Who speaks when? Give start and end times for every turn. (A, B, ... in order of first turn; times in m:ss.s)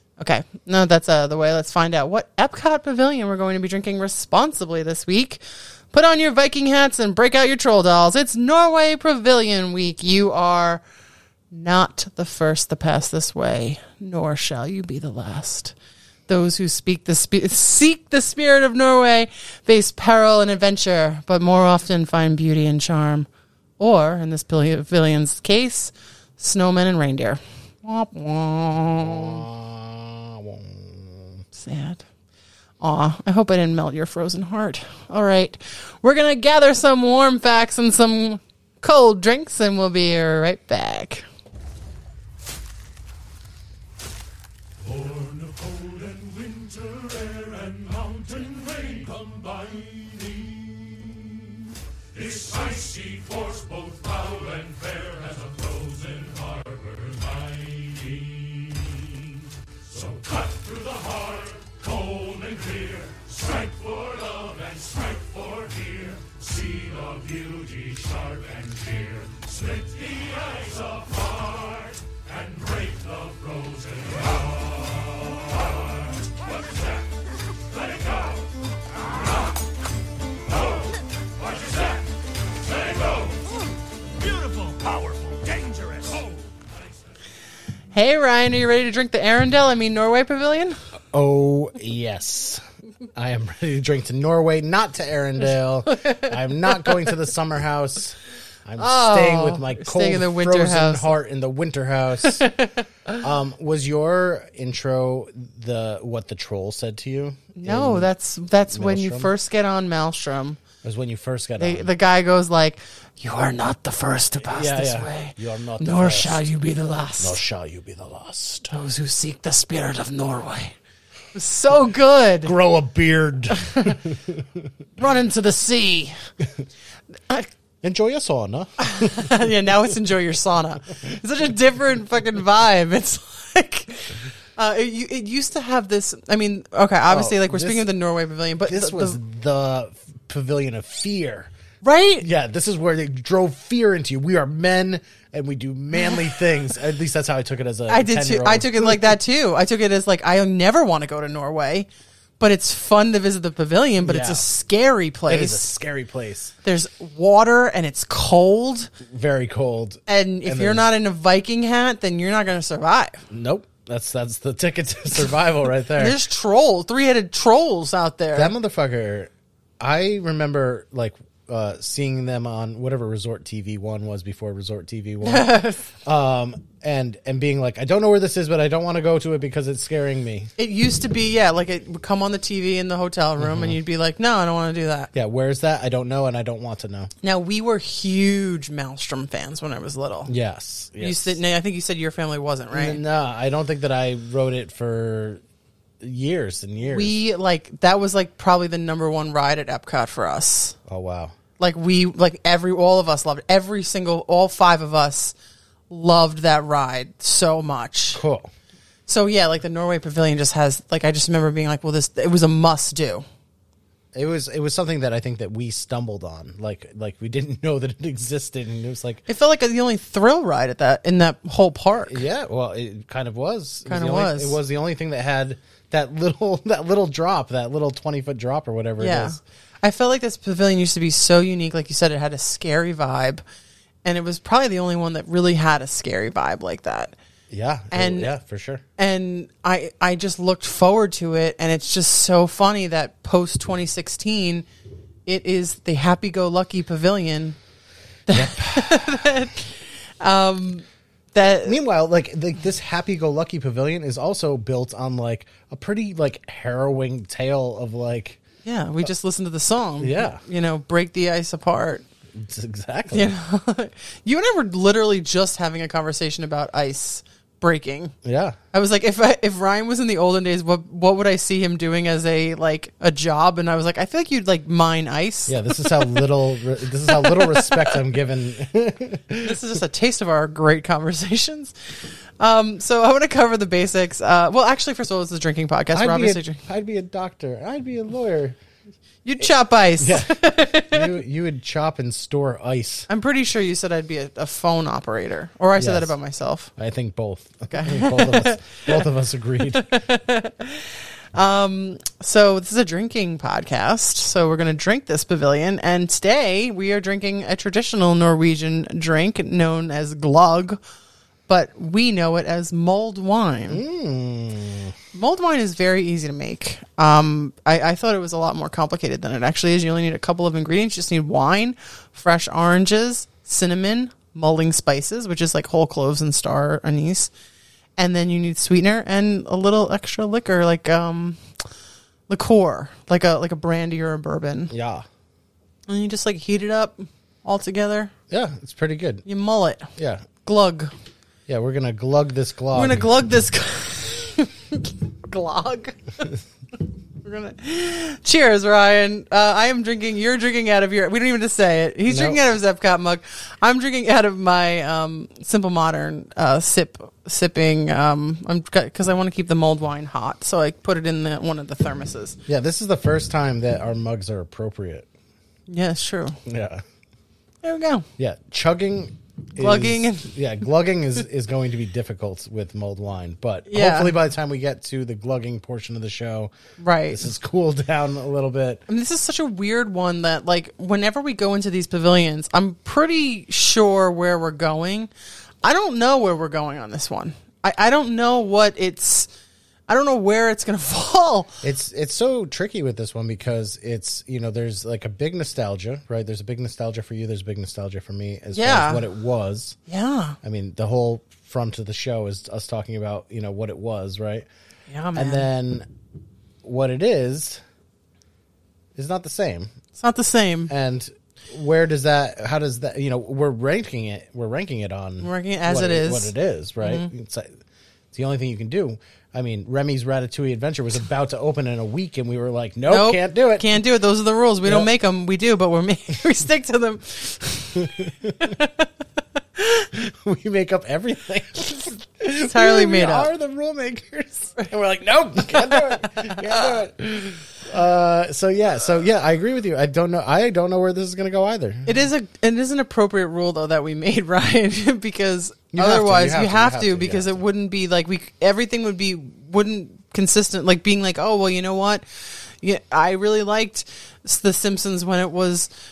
0:00.2-0:10.8 A
0:11.5-0:15.7 A
0:16.3-0:23.3 A
0:23.8-0:29.4 A
0:29.0-0:31.4 B
0:31.5-0:32.0 A
0:32.8-0:41.2 A
0:45.4-0:49.2 C
0:52.4-0:55.5 C
0:56.0-0:57.0 C
1:00.1-1:01.5 C
1:02.1-1:03.1 C
1:03.6-1:09.2 C
1:13.2-1:13.7 C
1:27.9-1:30.8 A
1:31.1-1:32.6 B
1:33.1-1:42.5 B
1:35.9-1:36.9 A
1:38.8-1:41.2 A
1:42.2-1:43.2 A
1:43.2-1:48.1 B
1:47.5-1:50.6 A
1:48.7-1:49.3 B
1:50.8-1:51.9 B
1:51.6-1:57.4 A
1:54.4-1:56.4 B
1:57.2-1:58.8 B
1:58.7-2:00.8 A
2:01.3-2:02.5 A
2:02.4-2:04.7 B
2:03.6-2:04.0 A
2:05.0-2:06.2 A
2:07.8-2:09.4 B
2:08.8-2:19.2 A
2:17.1-2:17.9 B
2:18.7-2:21.5 B
2:21.8-2:22.2 A
2:22.2-2:29.1 B
2:27.9-2:31.9 A
2:32.4-2:35.7 A
2:34.0-2:34.4 B
2:35.3-2:36.5 B
2:36.6-2:38.9 A
2:39.0-2:40.8 B
2:40.1-2:43.2 A
2:43.3-2:46.2 B
2:45.9-2:48.5 A
2:48.3-3:00.5 B
2:55.2-2:55.9 A
3:00.6-3:05.1 A
3:03.4-3:03.8 B
3:05.1-3:07.1 B
3:07.2-3:10.3 A
3:10.3-3:11.4 B
3:11.0-3:13.0 A
3:12.7-3:15.4 B
3:16.0-3:17.2 B
3:16.8-3:20.8 A
3:20.9-3:21.3 B
3:21.6-3:25.3 A
3:25.9-3:28.2 A
3:28.1-3:28.5 B
3:29.1-3:33.2 A
3:34.1-3:39.2 B
3:39.3-3:42.2 A
3:42.0-3:49.4 B
3:43.9-3:44.6 A
3:49.0-3:53.4 A
3:54.0-3:57.2 A
3:57.5-3:58.8 B
3:57.9-3:58.3 A
3:59.0-4:04.6 A
4:05.2-4:07.6 A
4:08.3-4:11.8 A
4:08.3-4:09.2 B
4:11.6-4:18.4 B
4:18.6-4:22.0 A
4:20.0-4:20.4 B
4:22.3-4:23.3 B
4:23.1-4:28.1 A
4:28.2-4:28.6 B
4:28.7-4:36.2 A
4:35.5-4:39.6 B
4:37.0-4:38.0 A
4:39.4-4:41.7 A
4:42.4-4:46.6 A
4:45.9-4:48.6 B
4:49.2-4:51.1 A
4:50.0-4:53.1 B
4:53.1-4:56.7 A
4:55.8-4:56.1 B
4:56.8-5:00.0 B
4:57.7-4:59.0 A
4:59.7-5:10.8 A
5:11.5-5:13.8 A
5:13.7-5:14.9 B
5:15.1-5:27.3 A
5:28.0-5:31.4 A
5:32.3-5:34.7 A
5:34.7-5:35.0 B
5:35.9-5:38.1 A
5:38.3-5:39.2 B
5:39.2-5:39.9 A
5:40.0-5:40.3 B
5:40.4-5:40.9 A
5:41.5-5:43.1 B
5:42.7-5:46.3 A
5:47.2-6:02.4 A
5:52.1-5:52.4 B
6:02.5-6:05.1 B
6:05.7-6:06.4 A
6:06.4-6:06.8 B
6:07.6-6:08.0 A
6:08.2-6:16.5 B
6:09.6-6:10.3 A
6:13.7-6:14.1 A
6:16.8-6:17.3 A
6:17.1-6:18.8 B
6:18.9-6:25.1 A
6:25.6-6:29.3 A
6:29.9-6:31.6 A
6:31.6-6:39.8 B
6:38.5-6:39.1 A
6:39.9-6:40.4 A
6:40.4-6:44.5 B
6:44.9-6:45.5 A
6:45.1-6:45.9 B
6:46.6-6:47.6 B
6:48.9-6:49.7 B
6:50.0-6:50.7 A
6:50.7-6:57.5 B
6:55.2-6:57.1 A
6:58.1-7:03.7 B
7:02.9-7:08.9 A
7:04.6-7:04.9 B
7:07.8-7:08.5 B
7:09.6-7:09.9 A
7:09.9-7:22.0 B
7:12.2-7:13.3 A
7:15.5-7:16.7 A
7:21.8-7:35.7 A
7:25.7-7:27.4 B